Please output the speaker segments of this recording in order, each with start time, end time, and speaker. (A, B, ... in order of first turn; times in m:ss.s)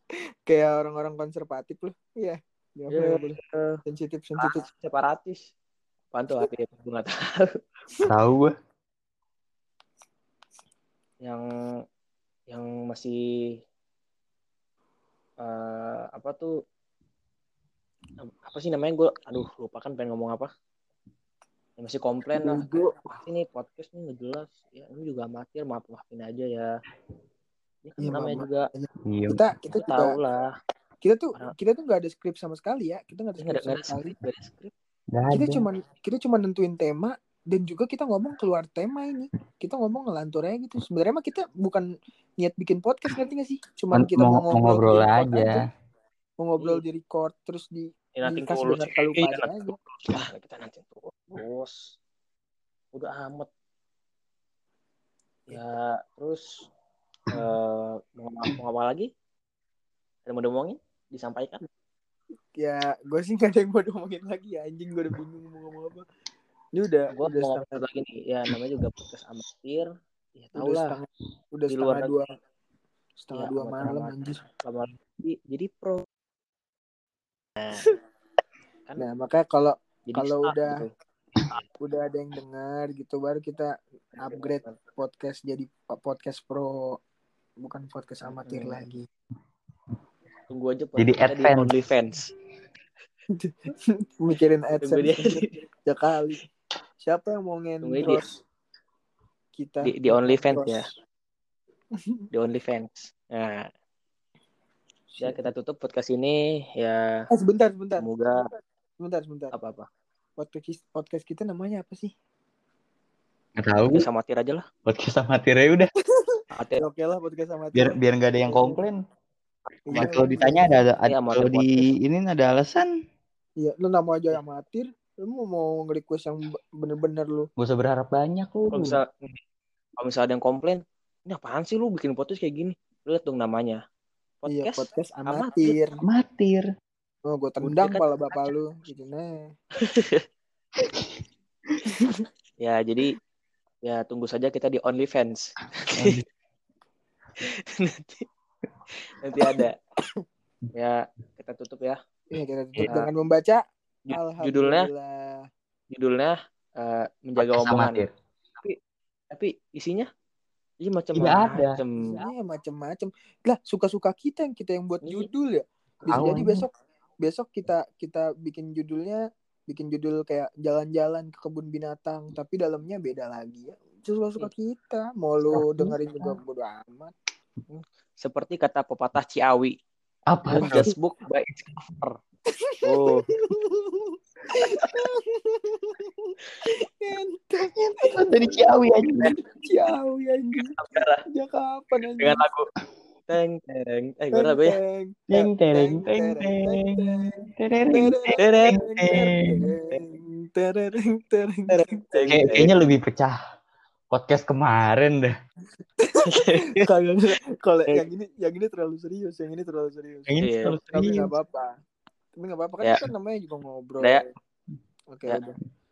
0:00.5-0:04.7 A
0:02.9-0:03.8 B
0:04.4-0:05.4 B
0:06.1-0:07.5 B
0:08.0-0:08.5 C
0:12.5-0:13.2 B
0:15.4-0:16.5 B
0:18.2-0:20.5 B
0:21.8-0:26.7 B
0:22.4-0:23.0 A
0:27.8-0:28.7 B
0:28.0-0:30.2 A
0:29.1-0:29.4 C
0:29.7-0:30.5 B
0:31.0-0:34.2 A
0:33.4-0:34.7 B
0:35.1-0:35.6 C
0:35.3-0:41.9 A
0:42.4-0:45.7 A
0:43.9-0:45.7 C
0:46.4-0:49.8 A
0:48.2-0:52.0 B
0:52.9-0:53.5 B
0:55.5-0:56.7 B
0:57.3-0:59.1 B
1:00.2-1:01.6 B
1:02.5-1:06.0 A
1:06.7-1:07.8 A
1:07.1-1:09.8 B
1:10.4-1:11.0 B
1:10.5-1:12.3 A
1:11.7-1:12.2 B
1:13.2-1:14.4 A
1:13.3-1:16.0 B
1:17.6-1:17.9 B
1:19.0-1:20.8 A
1:20.1-1:20.9 B
1:21.8-1:27.0 A
1:24.1-1:24.8 B
1:27.6-1:29.0 A
1:28.2-1:28.8 B
1:30.5-1:32.2 B
1:31.0-1:31.7 C
1:33.3-1:36.4 A
1:34.8-1:35.5 B
1:37.0-1:38.4 A
1:37.8-1:38.2 B
1:39.6-1:40.9 A
1:39.8-1:40.9 B
1:42.3-1:43.7 B
1:45.1-1:45.5 A
1:45.2-1:47.1 B
1:47.3-1:48.1 A
1:48.0-1:48.5 B
1:49.0-1:49.5 A
1:49.5-1:49.8 B
1:50.4-1:52.1 A
1:53.6-1:54.1 C
1:53.8-1:54.6 B
1:54.8-1:55.9 C
1:56.2-1:58.8 A
1:56.5-1:56.8 B
1:57.7-1:59.0 C
1:59.9-2:00.8 A
1:59.9-2:02.9 C
1:59.9-2:00.2 B
2:01.0-2:01.9 B
2:03.6-2:07.5 A
2:07.6-2:09.0 C
2:08.7-2:09.4 B
2:10.0-2:13.8 B
2:14.4-2:15.7 B
2:14.5-2:16.0 A
2:16.0-2:16.6 C
2:17.2-2:19.4 A
2:17.6-2:18.5 B
2:19.8-2:20.2 B
2:21.9-2:22.2 A
2:22.6-2:23.1 B
2:23.8-2:26.2 B
2:25.9-2:26.2 C
2:27.4-2:28.3 B
2:29.1-2:29.8 B
2:30.7-2:32.0 B
2:32.3-2:35.4 A
2:34.1-2:34.9 B
2:35.9-2:38.0 B
2:37.4-2:38.1 C
2:39.3-2:40.1 B
2:40.8-2:42.2 B
2:41.1-2:41.8 C
2:42.0-2:46.7 A
2:45.0-2:45.3 B
2:46.1-2:46.6 C
2:47.2-2:57.1 A
2:55.5-2:56.3 C
2:57.7-2:59.8 B
3:00.3-3:00.9 C
3:00.5-3:02.1 B
3:02.5-3:08.8 A
3:02.8-3:03.3 B
3:07.6-3:09.4 C
3:09.5-3:10.7 A
3:10.6-3:11.2 B
3:11.3-3:12.4 A
3:12.2-3:12.7 B
3:13.3-3:14.8 B
3:14.3-3:22.7 A
3:15.3-3:19.7 C
3:18.4-3:18.8 B
3:21.7-3:22.9 B
3:22.3-3:23.4 C
3:24.1-3:25.3 C
3:26.0-3:31.7 A
3:26.2-3:26.9 B
3:30.3-3:31.3 C
3:30.4-3:30.8 B
3:32.4-3:34.3 A
3:35.1-3:35.6 A